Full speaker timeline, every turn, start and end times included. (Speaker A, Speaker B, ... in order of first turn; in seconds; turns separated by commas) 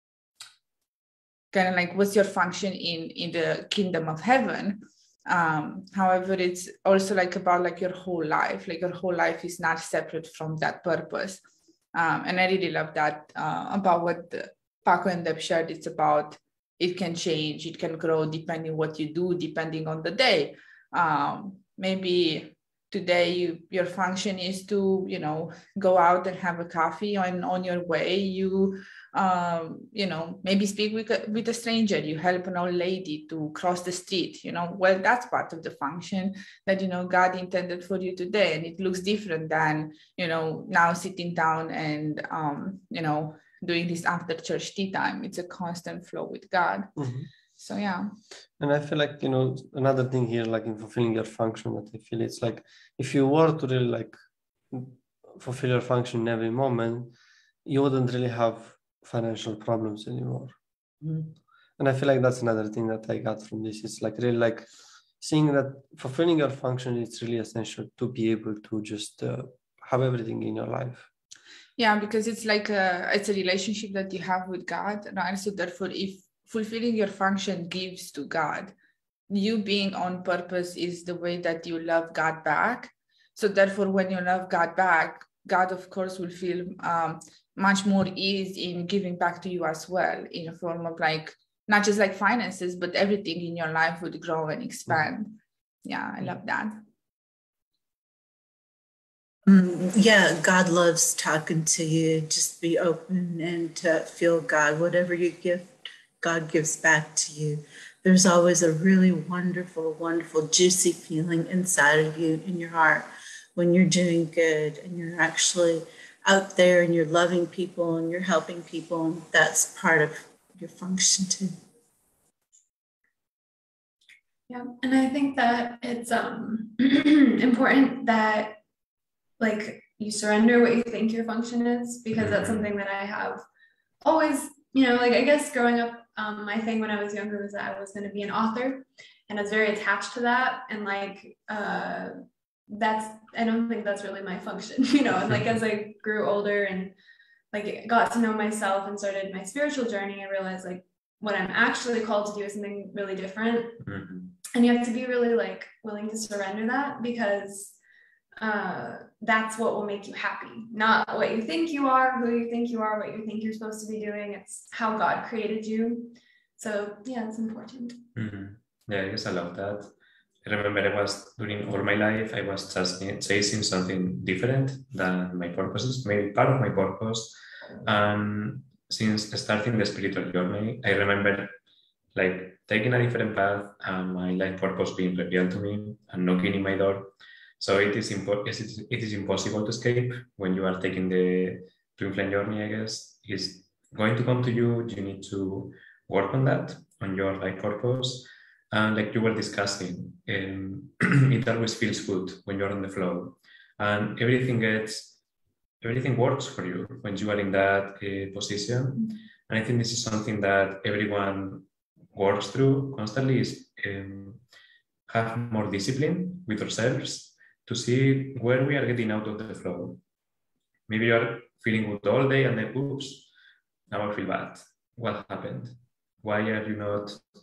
Speaker A: 1.5-11.4, Speaker A: 11.9-47.0, Speaker B: 47.0-47.3, Speaker A: 47.5-48.1, Speaker B: 48.6-57.1, Speaker B: 57.6-60.6, Speaker A: 61.0-61.3, Speaker B: 61.8-64.7, Speaker B: 65.2-71.1, Speaker A: 71.8-78.7, Speaker A: 79.3-96.8, Speaker C: 99.5-121.5, Speaker D: 124.5-128.6, Speaker D: 129.4-133.4, Speaker E: 132.1-132.7, Speaker D: 134.0-142.2, Speaker D: 142.7-146.9, Speaker D: 147.5-153.8, Speaker E: 153.8-154.4, Speaker D: 154.5-157.8, Speaker D: 158.4-168.1, Speaker E: 168.1-169.9, Speaker E: 170.4-181.6, Speaker E: 182.1-205.2, Speaker E: 205.8-214.4, Speaker E: 215.1-220.0, Speaker E: 220.9-223.3, Speaker E: 223.9-227.2